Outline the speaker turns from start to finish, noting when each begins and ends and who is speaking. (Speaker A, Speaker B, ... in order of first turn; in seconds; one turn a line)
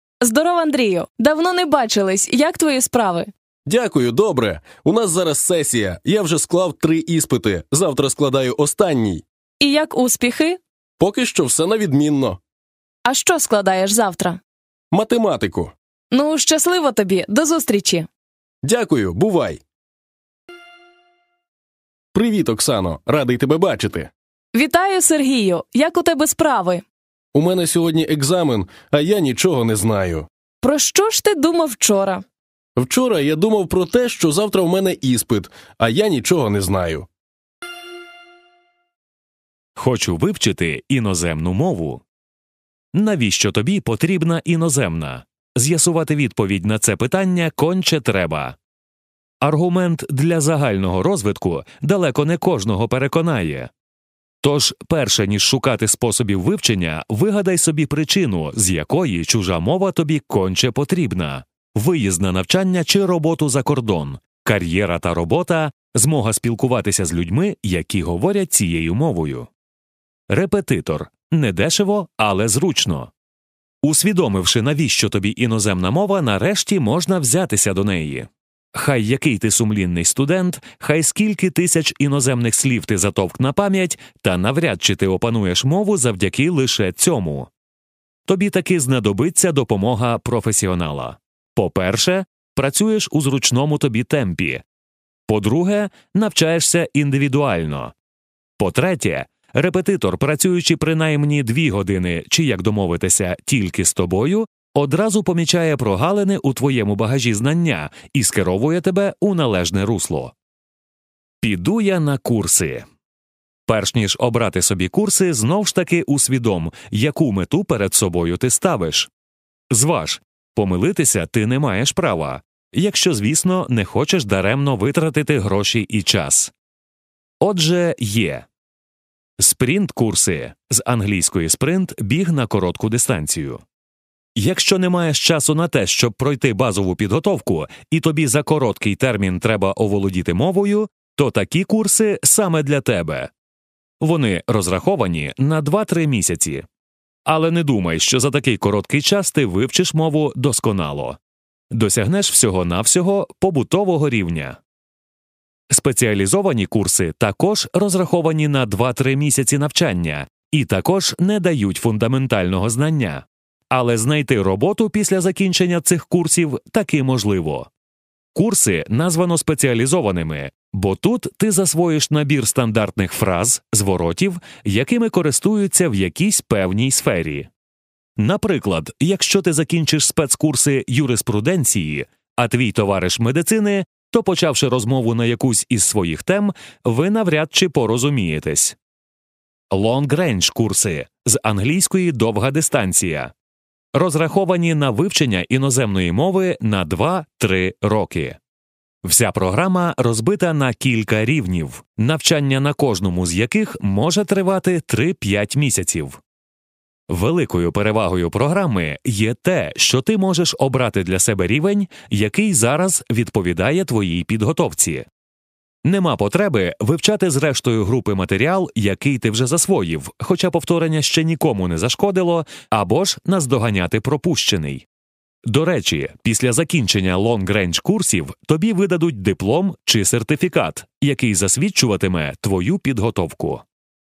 Speaker A: 0.2-3.3
Speaker B: 3.6-9.2
Speaker A: 9.6-10.6
Speaker B: 11.0-12.4
Speaker A: 13.0-14.4
Speaker B: 14.9-15.7
Speaker A: 16.1-18.1
Speaker B: 18.6-19.6
Speaker B: 22.1-24.1
Speaker A: 24.5-26.8
Speaker B: 27.3-30.3
Speaker A: 30.6-32.2
Speaker B: 32.8-37.1
Speaker C: 39.7-42.0
Speaker C: 42.9-48.5
Speaker C: 49.4-53.7
Speaker C: 54.4-69.5
Speaker C: 70.3-73.1
Speaker C: 73.8-87.5
Speaker C: 88.3-94.6
Speaker C: 95.3-97.9
Speaker C: 98.6-110.3
Speaker C: 111.4-112.8
Speaker C: 113.7-119.1
Speaker C: 119.7-126.5
Speaker C: 127.4-128.4
Speaker C: 129.4-133.6
Speaker C: 134.3-143.3
Speaker C: 144.0-146.6
Speaker C: 147.2-151.2
Speaker C: 151.7-154.6
Speaker C: 155.7-167.7
Speaker C: 168.3-177.5
Speaker C: 178.2-188.8
Speaker C: 189.7-193.3
Speaker C: 193.9-198.4
Speaker C: 199.0-206.2
Speaker C: 207.1-215.1
Speaker C: 215.8-224.8
Speaker C: 225.4-233.6